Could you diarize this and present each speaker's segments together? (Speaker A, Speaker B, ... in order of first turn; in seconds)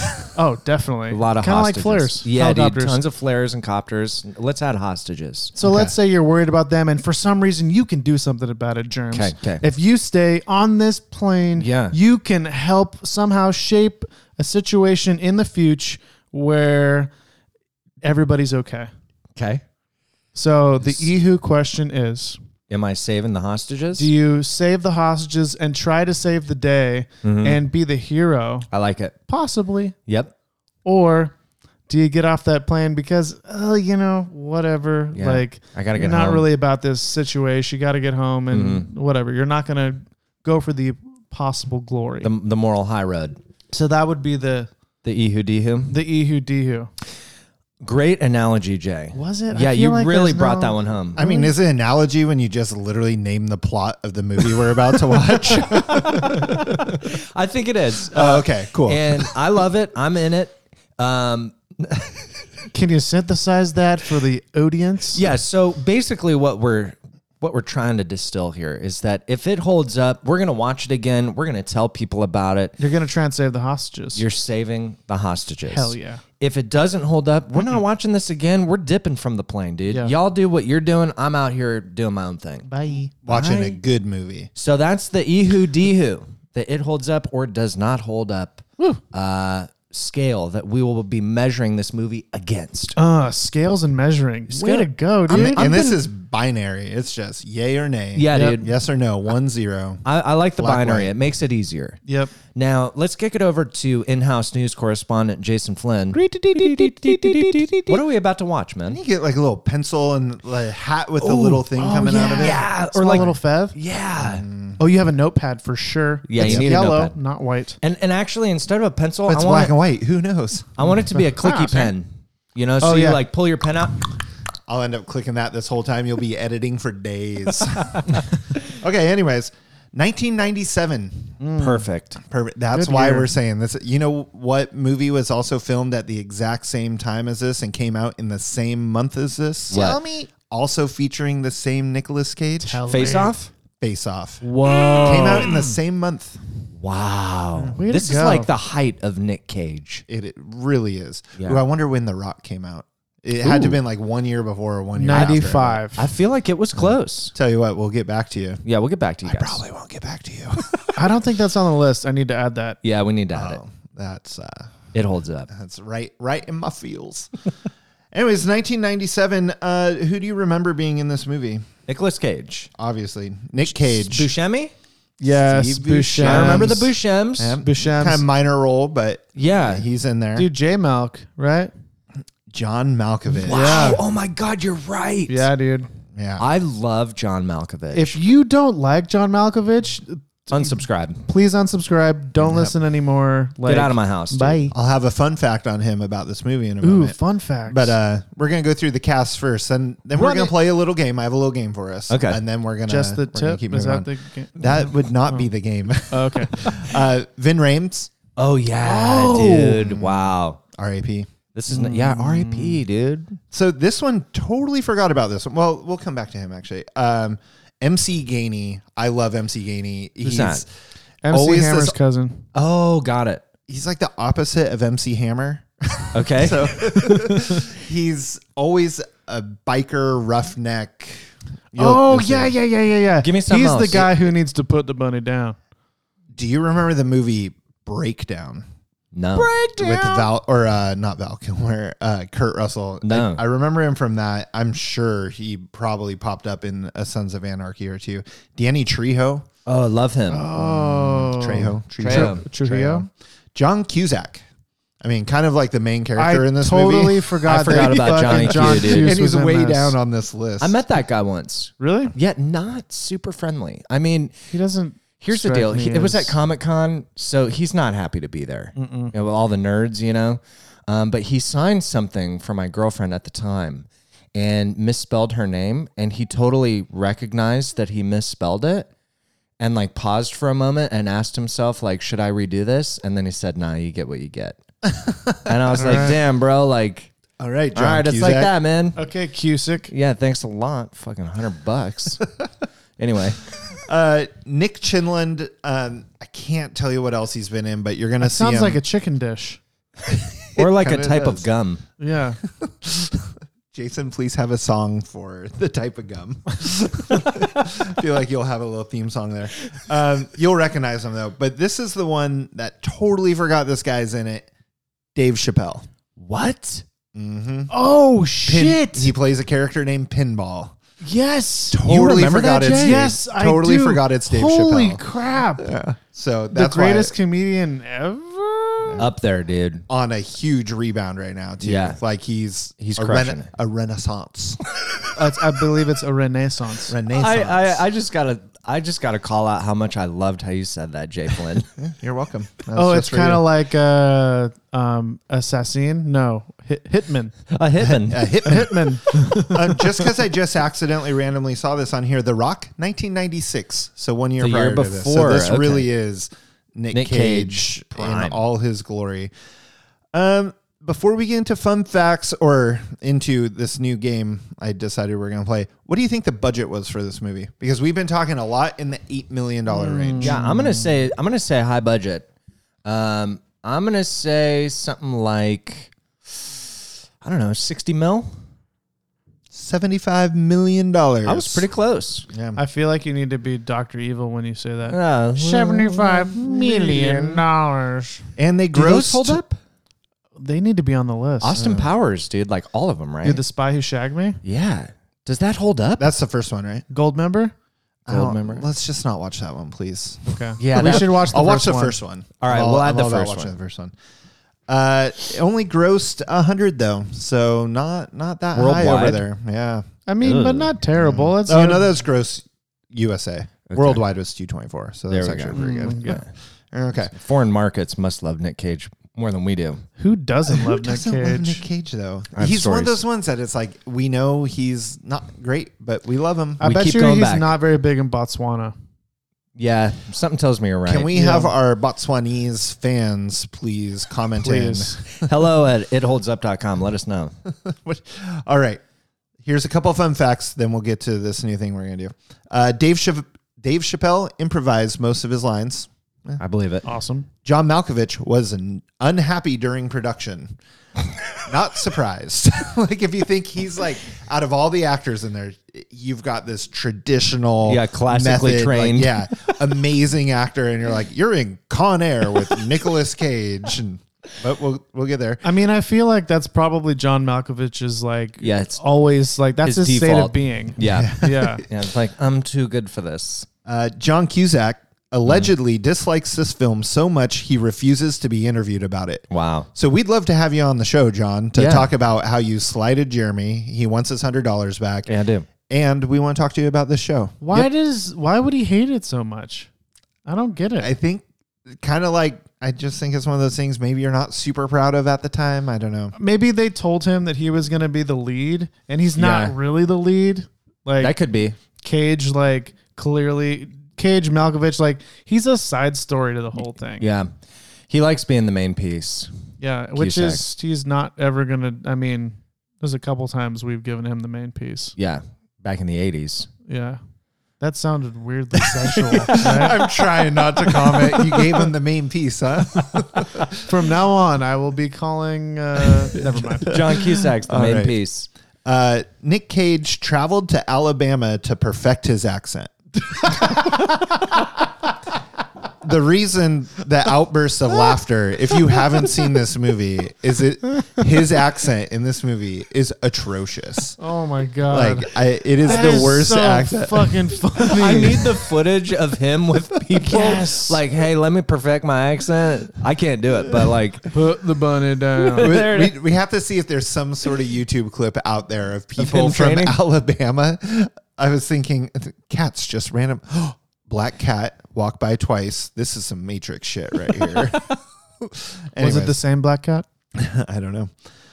Speaker A: 0.3-3.0, 5.5-17.1, 18.0-18.9, 20.3-22.4, 23.9-28.7, 29.3-29.9, 30.8-31.3, 31.9-42.3, 43.7-44.7, 45.9-46.9, 49.1-51.5, 62.7-65.2, 72.8-74.2, 75.7-76.2, 82.7-83.1, 93.0-96.0, 98.3-98.6, 102.1-102.3, 106.1-108.0, 111.2-113.8, 114.8-117.8, 121.4-121.9, 122.8-123.2, 131.4-131.9, 132.7-133.3, 142.7-143.4, 144.6-145.7, 147.6-148.5, 154.9-156.1, 160.9-162.8, 175.2-176.9, 177.6-178.2, 180.3-181.7, 183.5-184.0, 185.3-185.9, 187.9-194.7, 196.8-197.9, 200.2-200.5, 202.9-205.4, 206.1-206.6, 208.8-209.8, 211.7-212.8, 221.2-222.4, 231.8-235.6, 239.3-240.3, 250.3-253.1, 256.2-259.9, 261.8-262.1, 264.5-266.4, 268.7-269.1, 285.8-286.1, 288.9-289.9, 298.2-299.6, 302.0-302.4, 317.7-319.1, 321.0-321.8, 322.6-325.7, 326.5-329.0, 335.1-336.9, 342.7-347.4, 348.4-349.8, 369.7-370.9, 382.6-388.2, 390.4-391.6, 393.2-394.4, 396.9-397.5, 400.3-402.0, 410.1-411.9, 415.5-416.2, 420.0-421.6, 426.6-428.7, 431.1-431.5, 434.4-435.0, 446.8-447.3, 465.4-471.6, 487.4-489.7, 490.2-490.9, 496.1-501.1, 501.8-507.1, 509.6-514.9, 516.7-517.0, 517.6-519.9, 523.6-526.8, 544.0-548.3, 550.0-550.8, 554.1-555.6, 568.8-569.9
Speaker B: 1.1-5.5, 9.1-9.6, 11.6-11.9, 19.4-19.6, 22.7-24.1, 27.2-27.6, 28.7-29.1, 30.1-30.3, 35.1-36.4, 38.5-38.9, 42.2-43.4, 45.0-46.0, 47.8-51.2, 55.7-62.2, 65.1-72.8, 74.1-82.6, 83.3-83.8, 84.5-93.0, 94.5-95.8, 98.1-98.7, 100.0-102.0, 102.5-109.0, 112.3-114.4, 116.3-117.1, 117.8-119.7, 120.8-123.9, 131.6-132.2, 139.7-140.0, 142.9-143.5, 144.4-145.5, 146.8-150.0, 155.9-157.3, 158.6-159.6, 162.8-163.6, 164.9-165.5, 171.9-172.7, 173.7-174.7, 176.2-177.6, 179.3-179.8, 183.4-185.5, 186.4-188.2, 190.5-191.2, 193.6-194.6, 202.1-202.4, 208.4-210.6, 211.5-213.4, 220.2-220.6, 222.5-223.4, 226.1-227.5, 233.2-234.3, 239.1-239.5, 243.0-243.4, 249.7-250.4, 252.0-252.4, 257.4-259.1, 260.6-264.4, 265.2-278.9, 279.6-284.6, 285.4-287.1, 287.7-289.0, 289.9-292.2, 293.0-293.4, 300.6-301.8, 316.2-316.8, 321.8-323.0, 329.0-329.8, 331.6-332.0, 332.8-333.5, 337.1-341.7, 347.5-348.3, 354.4-355.9, 356.9-358.4, 370.2-372.3, 372.8-375.9, 377.2-378.3, 381.2-382.2, 384.9-386.3, 388.7-389.6, 391.4-393.4, 394.4-396.0, 398.1-398.6, 400.6-401.2, 402.4-403.5, 408.5-409.2, 410.2-410.7, 413.7-414.0, 415.1-416.3, 417.1-419.8, 422.3-423.0, 426.6-427.5, 429.6-431.1, 435.2-437.3, 446.4-446.8, 457.6-459.1, 468.4-468.8, 469.6-473.5, 479.3-479.7, 481.5-481.9, 485.1-485.4, 499.2-499.5, 501.0-501.6, 507.0-507.3, 507.9-509.3, 509.9-510.4, 515.0-516.5, 526.6-528.3, 547.6-554.1, 555.2-555.9, 559.0-559.8
Speaker C: 5.6-5.9, 51.1-57.0, 58.1-59.3, 83.2-84.5, 95.3-100.0, 100.6-101.1, 108.9-112.6, 114.2-114.8, 116.4-116.7, 119.3-120.9, 124.7-131.4, 132.2-142.8, 143.8-144.4, 145.0-146.4, 150.1-155.8, 157.3-158.6, 159.2-160.9, 163.3-164.7, 165.5-167.3, 168.1-171.6, 172.8-174.3, 175.3-176.8, 177.4-180.5, 182.5-184.0, 186.1-186.4, 192.4-192.7, 194.7-197.2, 197.7-208.1, 209.6-211.3, 213.5-220.7, 221.3-221.9, 223.7-232.5, 236.3-238.7, 239.8-249.5, 250.5-254.4, 255.0-260.8, 284.9-285.5, 287.4-288.5, 293.8-298.8, 300.1-301.5, 302.6-314.5, 315.1-315.9, 317.1-317.7, 318.4-320.8, 321.7-325.0, 325.6-327.1, 328.8-329.1, 329.9-334.6, 336.9-337.8, 341.8-343.4, 347.8-359.3, 360.1-370.4, 379.5-381.6, 382.3-382.6, 386.4-387.4, 388.4-389.4, 391.6-391.9, 396.0-396.9, 398.1-403.9, 404.7-409.9, 411.0-417.1, 420.5-426.6, 430.9-435.2, 437.5-438.8, 439.4-446.4, 447.4-450.6, 451.4-465.4, 470.8-471.6, 473.6-485.1, 485.7-487.7, 490.8-496.1, 519.0-523.6, 526.3-528.0, 528.6-534.2, 535.8-544.0, 544.7-547.4, 555.4-569.2, 570.1-570.9